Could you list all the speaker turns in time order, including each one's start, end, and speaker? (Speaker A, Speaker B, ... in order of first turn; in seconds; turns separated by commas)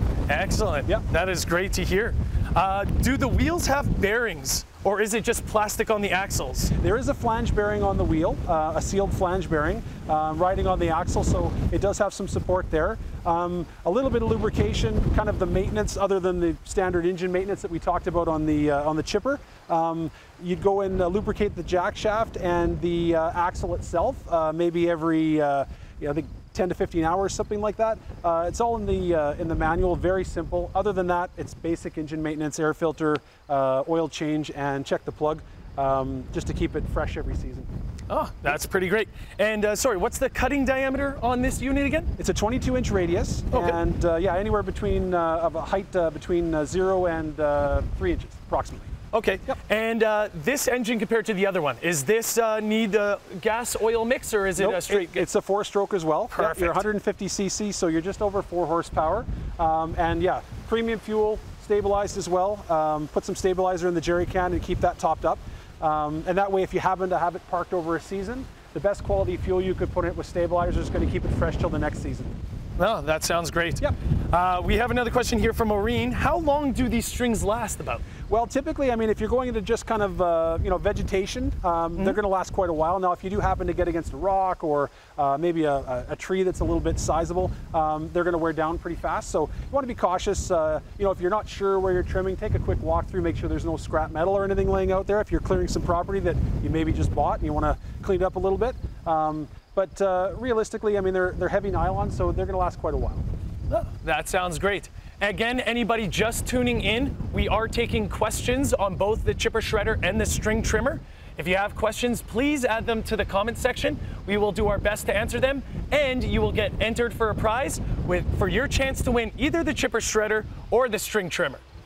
Speaker A: 0.3-6.7, Speaker B: 6.7-37.7, Speaker A: 38.1-42.1, Speaker B: 42.2-48.9, Speaker A: 43.5-43.8, Speaker A: 49.1-55.3, Speaker B: 54.6-72.4, Speaker A: 56.3-56.8, Speaker A: 72.8-78.0, Speaker B: 78.3-103.3, Speaker A: 103.7-121.6